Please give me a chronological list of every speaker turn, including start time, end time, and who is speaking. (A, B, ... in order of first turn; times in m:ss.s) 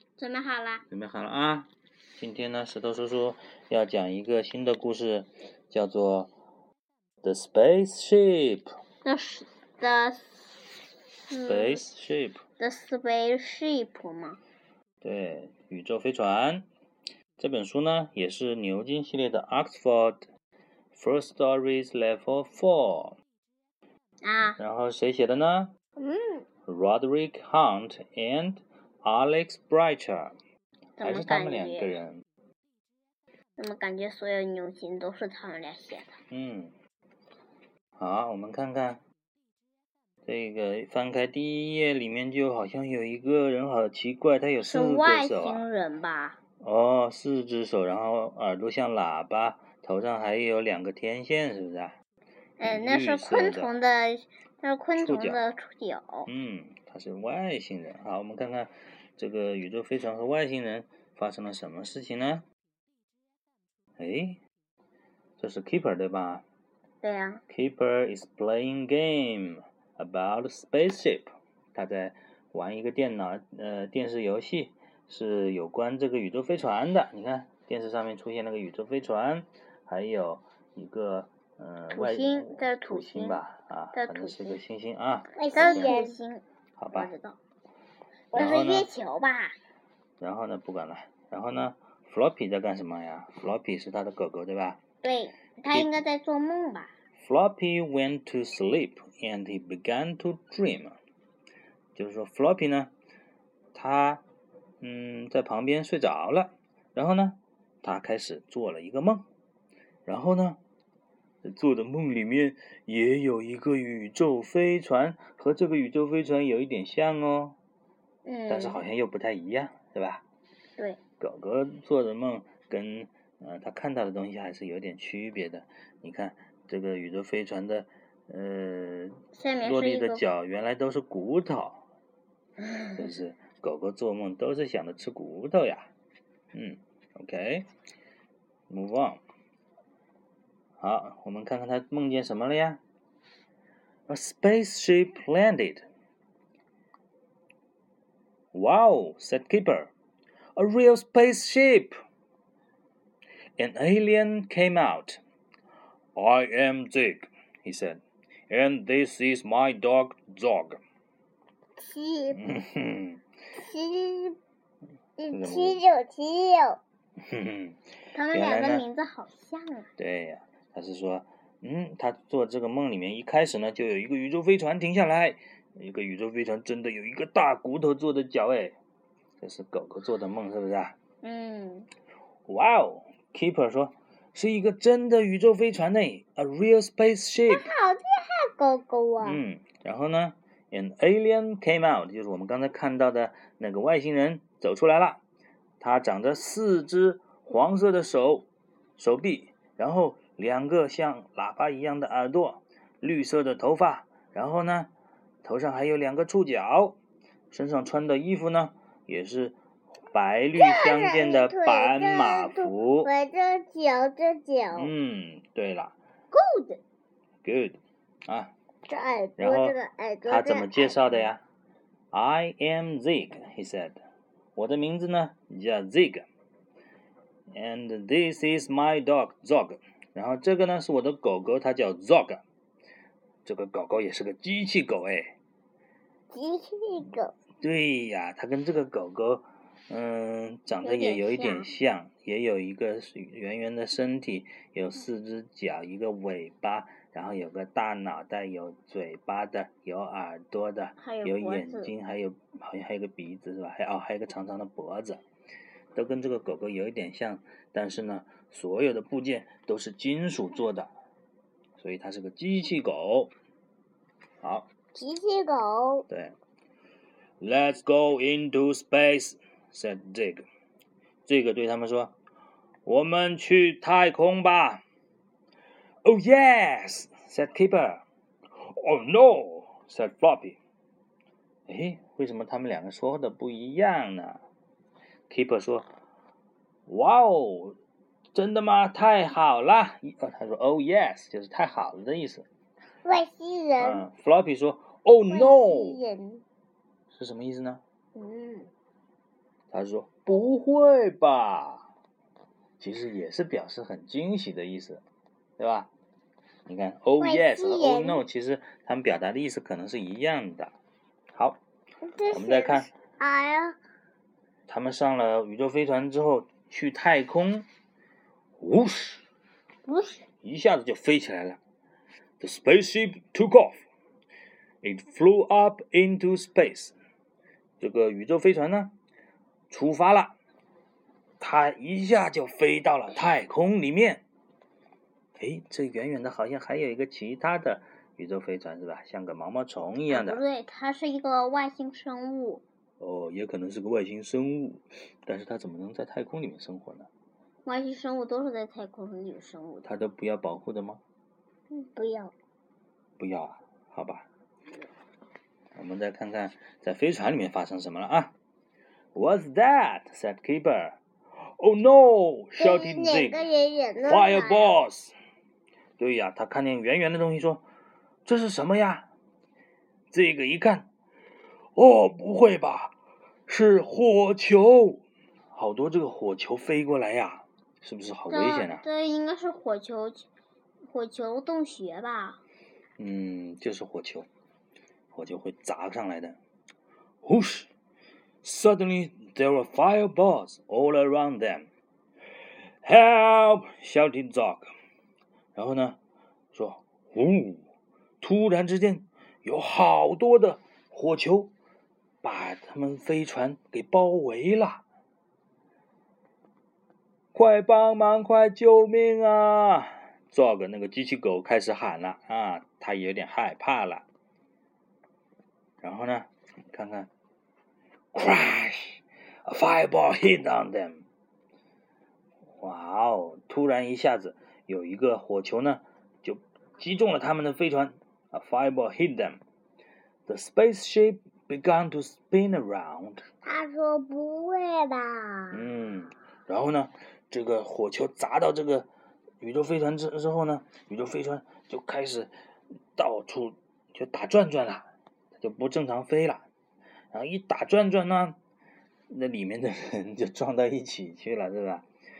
0:00.2-0:00.8 A
0:00.9-0:06.3 B
0:07.2-0:08.7 B
0:09.0-0:10.6 A
0:11.2-0:11.8 A
0:11.4-0:12.4 B
0:12.6-0:14.4 A
0:15.0-0:16.7 B
0:17.4-0:20.2 B
0:20.9-0:23.2 B
0:24.2-0:24.6 A
0:24.4-0:25.7 B
0:26.0-0:26.4 C
0:26.7-0:30.3 B
0:31.0-0:31.9 A
0:31.0-0:32.2 B
0:33.6-0:36.2 A
0:36.3-0:36.7 B
0:38.0-0:39.0 B
0:40.2-0:45.6 B
0:44.6-0:46.4 A
0:46.6-0:51.9 B
0:52.6-0:56.3 A
0:52.6-0:53.7 B
0:55.0-0:55.4 B
0:56.2-1:02.4 B
1:04.0-1:04.4 B
1:05.4-1:06.4 B
1:07.0-1:07.4 A
1:07.5-1:26.0 B
1:21.9-1:23.4 A
1:23.9-1:24.6 A
1:25.4-1:26.2 C
1:25.5-1:27.4 A
1:26.8-1:27.1 B
1:28.3-1:28.6 C
1:28.3-1:29.5 A
1:28.3-1:28.9 B
1:30.2-1:34.8 B
1:35.0-1:36.9 A
1:35.7-1:36.0 B
1:37.2-1:41.0 B
1:42.0-1:42.9 B
1:43.7-1:44.2 B
1:44.8-1:49.2 B
1:50.0-1:50.6 B
1:51.4-1:57.6 B
1:58.2-1:58.8 A
1:58.5-2:00.2 B
2:01.2-2:11.8 B
2:09.3-2:10.2 A
2:12.9-2:15.9 B
2:16.5-2:17.7 B
2:18.7-2:19.2 B
2:20.8-2:22.8 B
2:24.1-2:25.8 B
2:28.5-2:29.9 B
2:30.6-2:31.9 B
2:33.6-2:35.2 B
2:36.1-2:40.8 B
2:41.8-2:42.4 C
2:42.3-2:43.2 B
2:43.6-2:44.4 C
2:45.2-2:46.8 C
2:45.3-2:45.8 B
2:47.2-2:47.8 B
2:48.1-2:49.9 A
2:48.3-2:48.8 B
2:50.0-2:58.8 B
2:59.4-3:01.0 B
3:01.2-3:01.9 A
3:02.5-3:07.7 B
3:07.5-3:09.4 C
3:09.2-3:15.2 B
3:15.8-3:18.5 B
3:19.0-3:24.9 B
3:25.4-3:27.0 B
3:27.5-3:29.6 B
3:30.1-3:33.1 B
3:30.6-3:34.9 C
3:34.7-3:36.0 B
3:36.3-3:36.8 A
3:37.4-3:38.5 B
3:38.9-3:40.9 C
3:39.4-3:41.4 B
3:42.1-3:44.0 B
3:44.6-3:46.3 B
3:47.5-3:52.4 B
3:53.4-3:55.4 B
3:56.3-3:57.3 C
3:57.6-4:15.2 B
4:00.8-4:01.7 A
4:11.0-4:11.9 A
4:15.9-4:20.9 B
4:21.8-4:23.3 B
4:24.4-4:24.7 B
4:24.9-4:26.0 C
4:26.1-4:26.3 B
4:27.4-4:30.4 B
4:31.2-4:32.1 B
4:32.8-4:34.8 B
4:36.0-4:38.0 B
4:38.6-4:40.6 B
4:41.7-4:44.4 B
4:45.3-4:45.9 B
4:46.9-4:47.8 B
4:48.3-4:52.4 B
4:53.0-4:54.0 C
4:53.8-4:56.0 B
4:55.3-4:56.4 C
4:57.1-4:57.8 B
4:58.2-4:58.7 C
4:59.7-5:01.9 B
5:02.8-5:05.0 B
5:05.6-5:05.9 B
5:06.6-5:10.8 B
5:07.2-5:08.2 C
5:11.3-5:11.6 B
5:12.0-5:13.8 C
5:12.3-5:12.9 B
5:14.7-5:17.7 B
5:18.6-5:19.2 B
5:19.9-5:20.2 C
5:20.4-5:21.6 B
5:22.4-5:23.8 B
5:24.8-5:26.9 B
5:27.8-5:28.9 B
5:29.7-5:30.4 B
5:31.4-5:34.2 B
5:35.4-5:40.4 B
5:40.1-5:42.6 A
5:43.0-5:47.1 B
5:47.6-5:49.9 A
5:49.8-5:51.0 B
5:51.7-5:52.3 C
5:53.2-5:54.2 B
5:55.7-5:58.3 B
5:59.1-6:01.0 B
6:01.6-6:03.5 B
6:02.6-6:04.8 C
6:04.0-6:05.1 B
6:06.0-6:07.6 B
6:08.2-6:09.1 B
6:10.1-6:10.9 B
6:11.8-6:12.9 B
6:13.5-6:18.8 B
6:18.3-6:20.3 A
6:20.9-6:22.4 A
6:23.0-6:24.3 B
6:25.1-6:26.4 B
6:27.2-6:27.7 B
6:28.4-6:31.7 B
6:32.8-6:34.7 B
6:35.6-6:36.0 B
6:36.5-6:37.6 B
6:38.2-6:41.5 B
6:42.2-6:44.8 B
6:47.3-6:54.0 B
6:55.8-6:57.1 B
6:58.1-7:01.0 B
7:02.6-7:09.4 B
7:10.3-7:13.2 B
7:13.4-7:15.6 C
7:15.5-7:18.9 B
7:19.4-7:22.3 B
7:23.0-7:24.9 B
7:25.4-7:26.4 B
7:27.1-7:28.4 B
7:29.1-7:31.8 B